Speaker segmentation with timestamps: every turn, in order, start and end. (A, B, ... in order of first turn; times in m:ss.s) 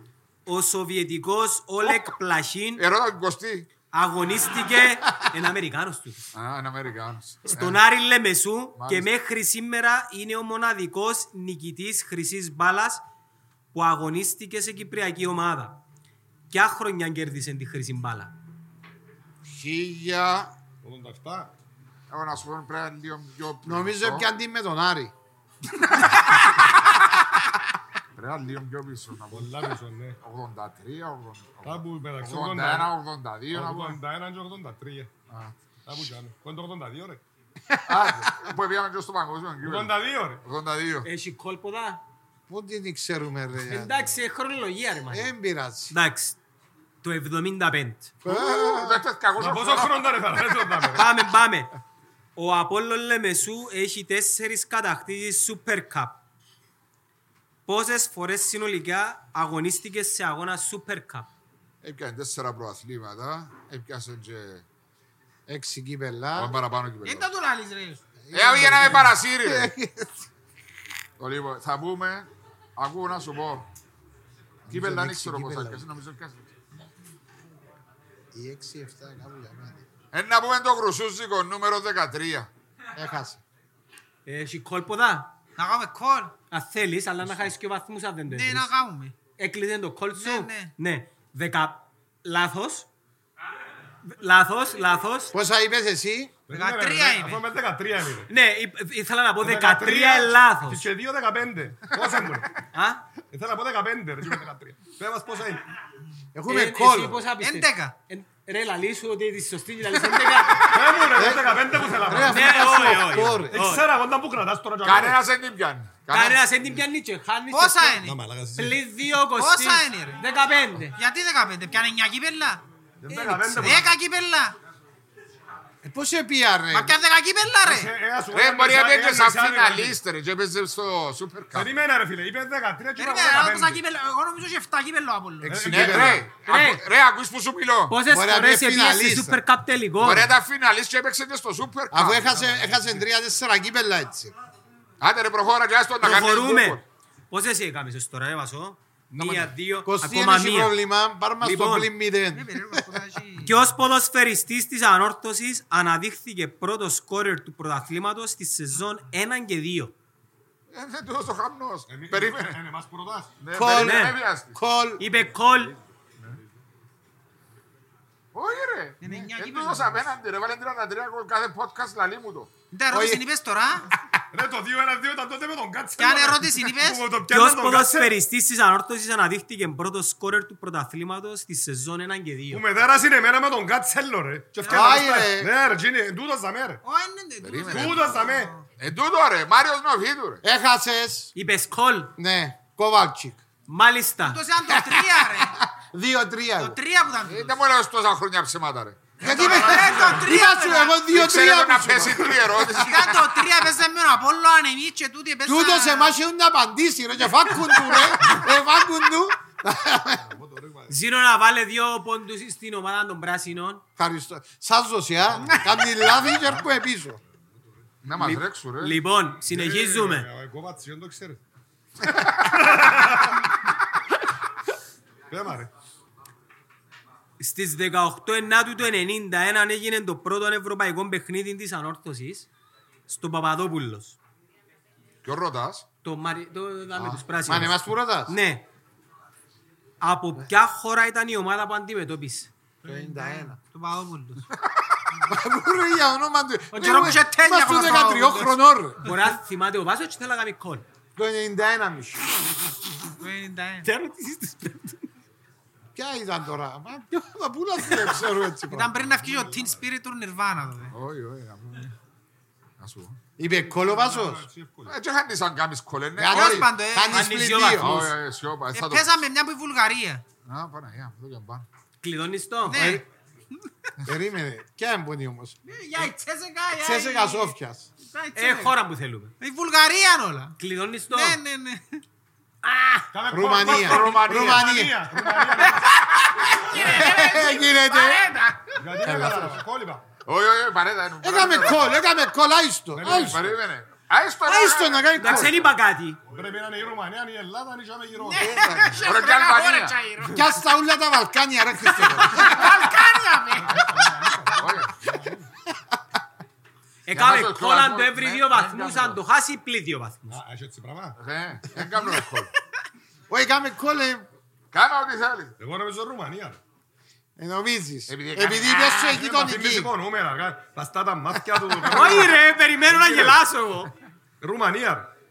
0:00.4-0:02.8 A
0:02.8-0:03.7 B
0:03.9-0:06.2 A
0:06.3-0:07.8 B
0:07.5-0:13.0 A
0:08.8-0:09.1 B
0:13.7-0:15.8 A
0:16.5-0:18.3 A
0:19.4-0:20.5 B
0:20.8-0:21.5 C
0:22.1-0:24.2 B
0:23.6-0:25.1 D
0:28.2-0:34.0 B
0:29.3-0:30.2 C
0:31.6-0:32.9 C
0:33.5-0:35.1 C
0:35.3-0:35.5 B
0:35.8-0:37.2 C
0:37.7-0:38.3 D
0:37.9-0:41.1 B
0:39.6-0:40.4 C
0:41.0-0:42.0 A
0:42.5-0:44.2 D
0:43.7-0:45.3 A
0:45.1-0:45.9 D
0:45.9-0:46.4 A
0:47.0-0:48.1 A
0:48.2-0:49.0 D
0:48.2-0:50.3 B
0:49.4-0:51.1 C
0:50.9-0:51.7 A
0:52.4-0:56.2 A
0:57.7-1:01.3 A
1:01.8-1:04.6 B
1:05.5-1:06.6 D
1:06.3-1:07.3 B
1:07.0-1:08.0 E
1:08.2-1:10.3 D
1:08.3-1:09.7 B
1:11.2-1:13.7 B
1:14.6-1:15.9 D
1:14.7-1:16.5 B
1:18.3-1:19.8 D
1:20.1-1:22.5 B
1:23.0-1:23.4 D
1:24.2-1:25.3 A
1:25.6-1:26.4 E
1:26.5-1:28.7 A
1:28.3-1:29.2 E
1:29.4-1:32.9 A
1:30.2-1:30.7 E
1:34.1-1:35.3 A
1:35.3-1:36.3 D
1:36.5-1:38.3 C
1:36.5-1:37.4 E
1:38.3-1:40.8 A
1:39.4-1:42.6 C
1:42.7-1:43.0 A
1:43.3-1:45.6 C
1:46.3-1:47.2 D
1:46.5-1:50.8 A
1:47.4-1:47.9 E
1:50.6-1:52.8 C
1:51.1-1:53.6 D
1:52.2-1:53.9 A
1:53.5-1:55.2 C
1:54.8-1:56.4 B
1:56.1-1:58.0 A
1:57.5-1:58.2 E
1:58.0-1:58.8 C
1:58.5-2:01.0 A
1:59.3-2:00.2 E
2:01.0-2:02.6 E
2:03.0-2:03.9 C
2:03.1-2:03.8 A
2:03.5-2:04.6 E
2:05.8-2:07.0 D
2:06.7-2:07.9 E
2:07.6-2:10.0 C
2:08.3-2:11.8 B
2:11.5-2:13.8 C
2:13.0-2:15.7 E
2:15.4-2:16.3 D
2:15.4-2:16.3 C
2:15.7-2:17.9 B
2:16.4-2:16.8 A
2:17.9-2:20.3 A
2:18.0-2:19.4 D
2:20.0-2:22.4 B
2:21.9-2:24.3 D
2:22.3-2:23.0 C
2:25.0-2:26.8 B
2:26.0-2:30.8 A
2:29.2-2:29.5 B
2:29.8-2:32.9 D
2:31.4-2:31.9 A
2:32.3-2:33.6 E
2:33.4-2:39.9 A
2:40.7-2:42.6 B
2:41.9-2:43.3 C
2:43.4-2:44.6 B
2:43.5-2:45.0 D
2:43.8-2:44.2 A
2:45.0-2:45.7 A
2:48.3-2:52.5 B
2:49.0-2:50.0 E
2:52.7-2:53.9 E
2:52.9-2:53.2 D
2:54.3-2:58.1 C
2:56.0-2:57.0 E
2:57.3-3:02.6 A
3:02.5-3:06.8 C
3:04.6-3:05.1 E
3:04.7-3:05.5 D
3:06.8-3:08.6 E
3:07.4-3:08.2 B
3:07.7-3:08.5 C
3:08.8-3:10.4 B
3:10.4-3:11.3 D
3:11.3-3:12.1 A
3:12.2-3:13.4 D
3:13.7-3:14.4 A
3:14.2-3:15.6 E
3:14.7-3:16.8 D
3:16.6-3:17.5 E
3:17.2-3:19.2 B
3:19.2-3:22.9 D
3:19.2-3:20.2 C
3:19.3-3:21.1 E
3:21.1-3:23.4 B
3:22.7-3:26.2 E
3:25.4-3:30.2 D
3:30.2-3:31.0 C
3:30.9-3:33.8 A
3:34.0-3:37.2 D
3:36.1-3:36.5 C
3:38.0-3:39.0 B
3:38.2-3:40.3 A
3:39.5-3:41.4 C
3:42.5-3:43.4 C
3:45.3-3:45.7 C
3:47.4-3:52.5 A
3:53.1-3:54.2 A
3:55.2-3:55.8 B
3:56.0-3:58.6 A
3:57.0-3:58.3 D
4:00.0-4:02.5 A
4:02.8-4:03.6 D
4:02.8-4:04.4 E
4:05.3-4:09.0 D
4:06.7-4:07.2 A
4:06.7-4:08.5 E
4:09.0-4:10.8 A
4:11.2-4:12.4 D
4:13.2-4:13.9 E
4:13.8-4:15.0 A
4:16.0-4:19.0 D
4:18.6-4:21.0 E
4:19.0-4:19.8 C
4:20.9-4:21.9 B
4:22.8-4:23.2 B
4:23.4-4:24.4 D
4:23.5-4:25.0 C
4:24.8-4:26.7 B
4:26.2-4:28.1 D
4:26.3-4:27.2 E
4:27.1-4:28.0 A
4:27.8-4:29.2 B
4:28.7-4:30.2 E
4:30.4-4:31.6 B
4:32.0-4:33.0 A
4:32.6-4:33.7 E
4:32.7-4:33.0 D
4:34.0-4:35.6 D
4:35.6-4:38.8 E
4:36.8-4:37.9 D
4:38.4-4:39.3 A
4:39.4-4:40.6 E
4:40.6-4:41.4 A
4:41.1-4:42.0 E
4:42.6-4:43.0 A
4:43.1-4:45.9 C
4:43.3-4:45.0 D
4:43.6-4:44.7 B
4:45.7-4:48.8 E
4:46.6-4:48.3 D
4:48.8-4:50.0 C
4:49.0-4:49.6 D
4:50.2-4:51.9 B
4:51.2-4:53.4 D
4:53.0-4:53.6 C
4:53.0-4:55.4 B
4:54.5-4:55.7 D
4:55.2-4:56.2 A
4:56.3-4:58.6 C
4:58.2-5:00.4 E
4:58.4-5:00.0 B
5:00.3-5:02.8 D
5:02.0-5:04.0 E
5:03.5-5:05.5 C
5:03.6-5:03.9 B
5:04.5-5:04.9 B
5:05.7-5:06.0 D
5:07.1-5:10.4 A
5:07.1-5:09.2 B
5:10.3-5:11.2 C
5:11.2-5:12.5 B
5:13.3-5:14.3 D
5:14.7-5:15.5 B
5:15.6-5:16.6 C
5:17.4-5:19.9 D
5:18.1-5:19.2 B
5:19.0-5:23.4 C
5:21.5-5:22.1 D
5:21.9-5:23.9 A
5:24.4-5:25.1 C